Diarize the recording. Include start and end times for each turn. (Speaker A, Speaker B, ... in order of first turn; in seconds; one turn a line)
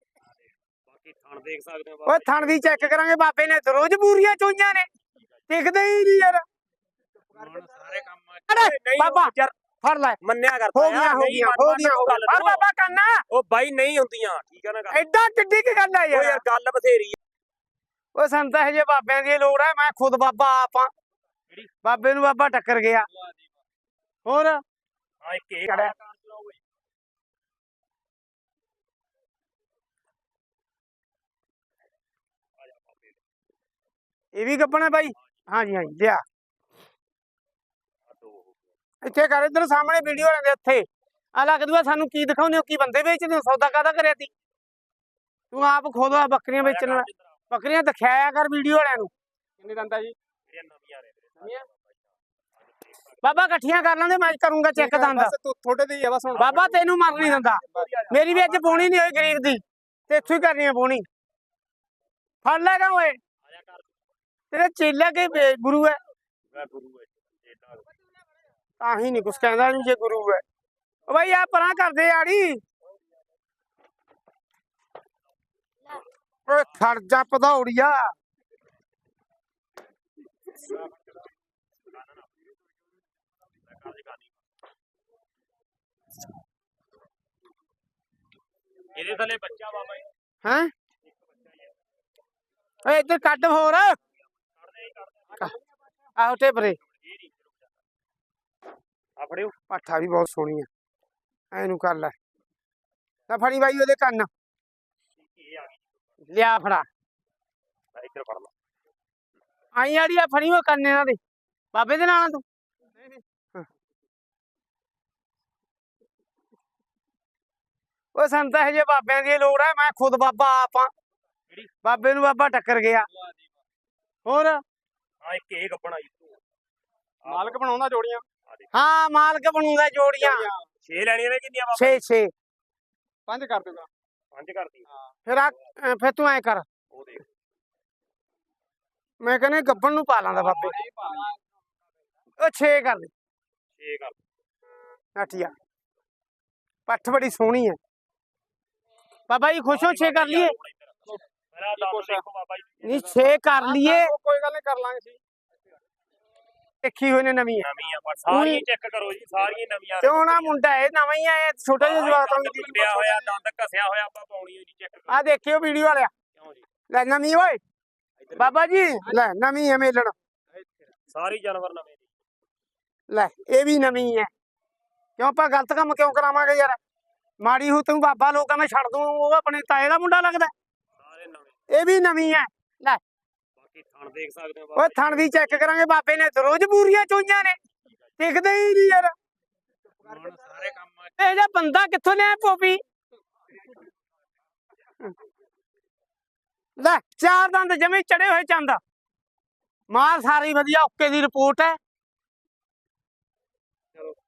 Speaker A: 0.9-3.0
Speaker B: 2.0-4.9
Speaker B: 5.5-6.4
Speaker A: 7.3-9.5
Speaker B: 8.5-9.3
Speaker B: 9.8-10.2
Speaker A: 10.2-12.6
Speaker B: 10.7-13.2
Speaker A: 13.3-15.0
Speaker B: 14.9-16.4
Speaker A: 16.1-17.2
Speaker B: 18.1-20.9
Speaker B: 21.8-23.1
Speaker B: 24.2-24.6
Speaker A: 25.2-26.6
Speaker A: 32.6-33.2
Speaker B: 34.3-36.2
Speaker A: 38.1-38.7
Speaker B: 39.0-44.3
Speaker B: 45.5-49.1
Speaker A: 46.6-47.4
Speaker C: 49.6-50.1
Speaker A: 50.5-53.4
Speaker B: 53.2-55.3
Speaker C: 54.8-56.7
Speaker A: 56.3-58.9
Speaker B: 56.4-61.0
Speaker B: 62.4-63.2
Speaker A: 63.4-63.9
Speaker B: 64.5-66.0
Speaker A: 66.5-67.9
Speaker B: 68.8-70.4
Speaker B: 71.1-72.6
Speaker B: 76.5-78.1
Speaker A: 81.9-82.4
Speaker A: 83.7-84.3
Speaker A: 88.9-90.1
Speaker B: 90.4-90.7
Speaker A: 91.0-91.7
Speaker B: 92.8-94.0
Speaker A: 94.6-95.5
Speaker B: 96.2-96.8
Speaker A: 96.8-97.7
Speaker A: 99.2-99.5
Speaker B: 99.7-100.7
Speaker B: 101.5-102.1
Speaker B: 103.3-104.3
Speaker A: 105.2-106.3
Speaker B: 106.3-106.8
Speaker A: 107.9-108.5
Speaker B: 109.8-111.2
Speaker B: 111.7-112.4
Speaker B: 118.1-120.9
Speaker B: 121.8-123.1
Speaker B: 124.2-124.6
Speaker A: 125.2-126.4
Speaker A: 127.2-127.6
Speaker C: 127.2-128.2
Speaker B: 128.7-130.5
Speaker C: 130.2-130.7
Speaker A: 130.8-132.0
Speaker B: 131.7-132.3
Speaker C: 133.3-133.9
Speaker A: 134.3-134.8
Speaker B: 135.3-136.6
Speaker A: 136.9-137.3
Speaker B: 139.2-140.7
Speaker C: 140.4-141.4
Speaker B: 142.4-143.1
Speaker A: 143.8-144.2
Speaker B: 145.2-145.5
Speaker B: 146.9-147.8
Speaker B: 149.3-150.5
Speaker A: 149.7-153.3
Speaker C: 151.7-152.2
Speaker B: 152.8-154.1
Speaker C: 153.5-155.2
Speaker B: 156.8-157.7
Speaker A: 157.6-160.6
Speaker B: 158.3-158.6
Speaker B: 160.0-162.8
Speaker A: 161.8-165.3
Speaker C: 162.4-163.3
Speaker B: 165.1-166.1
Speaker A: 166.3-166.6
Speaker B: 166.9-167.6
Speaker A: 168.2-168.6
Speaker B: 168.3-170.1
Speaker A: 171.1-172.0
Speaker B: 173.1-174.3
Speaker B: 175.2-176.8
Speaker B: 177.4-180.5
Speaker A: 181.0-181.6
Speaker B: 181.7-183.0
Speaker A: 183.6-185.6
Speaker B: 184.8-187.6
Speaker B: 188.2-189.1
Speaker A: 190.0-191.1
Speaker C: 190.1-190.3
Speaker B: 191.2-192.8
Speaker B: 196.8-198.8
Speaker B: 199.9-201.8